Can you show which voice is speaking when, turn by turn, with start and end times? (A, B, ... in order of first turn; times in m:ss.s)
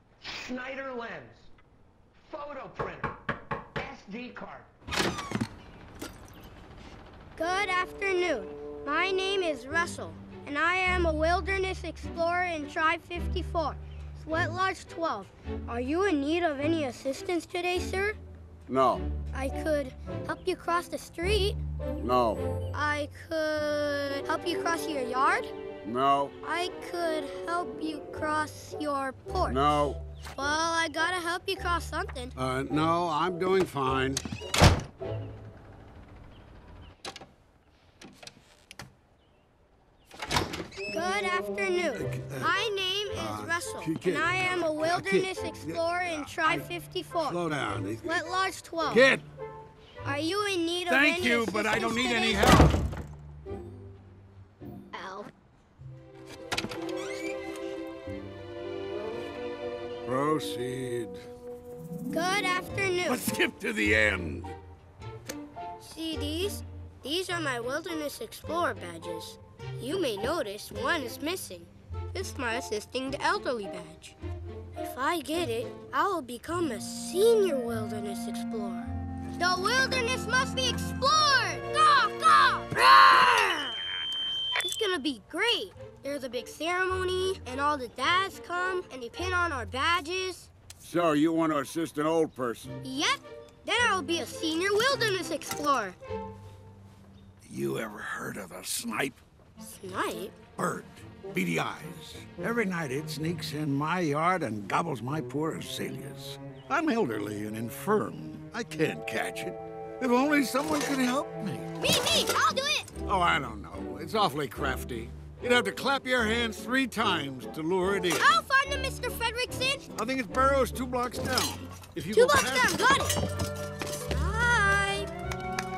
0:00.2-0:01.5 A
0:02.2-0:03.1 A
0:03.8-0:04.7 A
0:07.4-0:18.2 B
0:18.7-0:19.0 C
0:19.3-0:21.6 B
0:22.0-0:22.4 C
0:22.7-0:25.5 B
0:25.8-0:26.3 C
0:26.4-0:32.4 B
0:29.5-0:30.0 C
0:32.4-0:34.2 C
0:40.9-0:47.4 B
0:41.9-0:42.5 C
0:43.2-0:46.7 C
0:47.2-0:48.2 C
0:48.0-0:49.1 B
0:48.9-0:49.2 C
0:50.0-0:52.6 B
0:50.9-0:52.8 C
0:54.9-0:55.3 B
1:00.0-1:01.2 C
1:02.1-1:03.2 B
1:03.1-1:04.6 C
1:05.8-1:14.2 B
1:14.8-1:23.8 B
1:24.6-1:30.5 B
1:30.8-1:32.8 C
1:32.8-1:36.0 B
1:37.4-1:39.2 C
1:39.6-1:40.4 B
1:40.6-1:51.7 C
1:51.8-1:52.9 B
1:53.0-1:58.4 C
1:58.2-1:59.9 B
2:00.0-2:02.8 C
2:02.1-2:03.2 B
2:04.1-2:05.1 B